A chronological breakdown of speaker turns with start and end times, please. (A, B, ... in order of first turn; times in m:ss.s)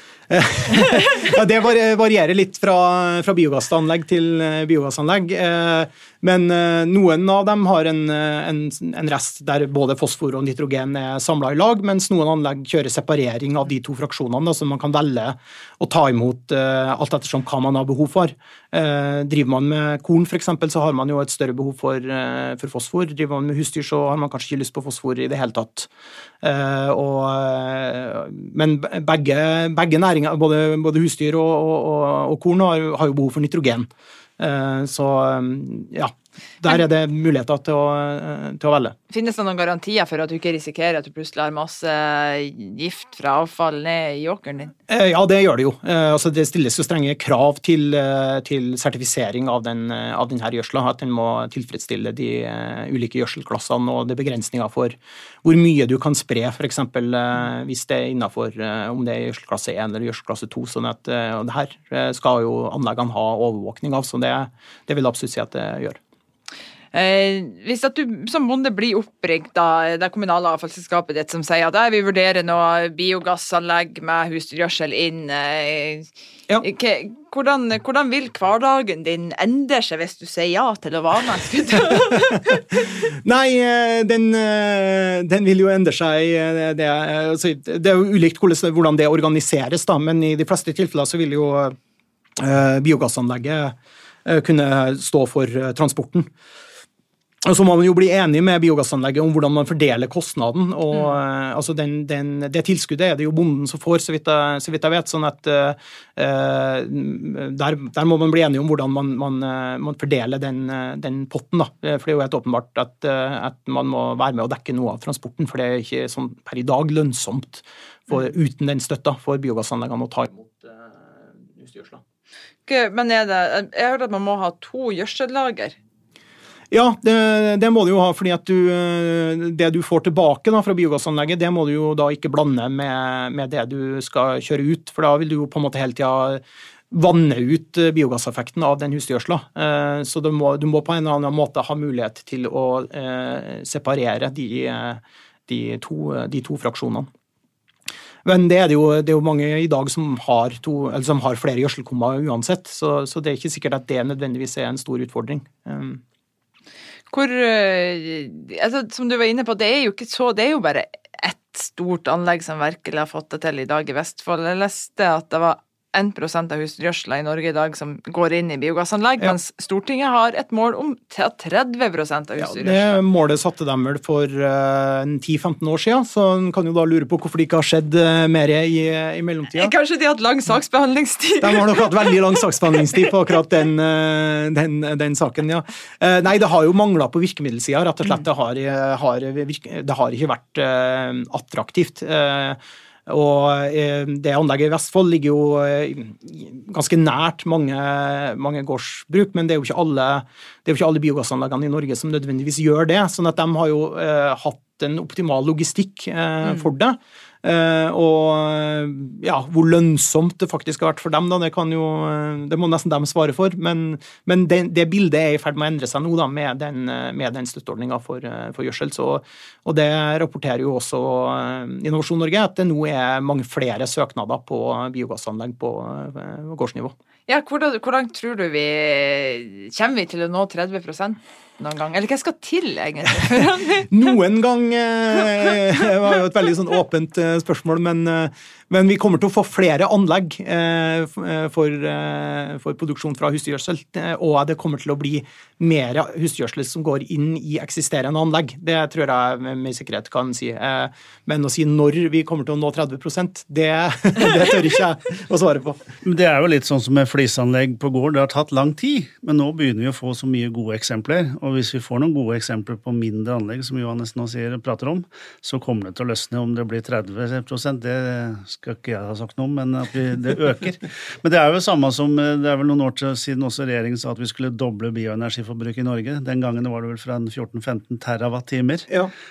0:00.3-0:25.9 A
0:26.4-0:33.9 A
0:34.4-0:39.0 A
0:39.1-0:44.7 B
0:44.9-1:06.0 A
1:06.9-1:16.1 B
1:16.6-1:22.8 B
1:23.1-1:31.8 A
1:32.4-1:36.3 A
1:37.4-2:00.9 A
2:01.5-2:02.0 A
2:02.7-2:05.8 B
2:06.7-2:27.1 A
2:28.2-2:36.0 A
2:37.1-2:53.0 B
2:52.4-2:59.7 A
2:59.5-3:02.1 B
3:01.4-3:46.9 A
3:47.3-3:53.9 B
3:53.9-4:15.8 A
4:16.0-4:38.9 C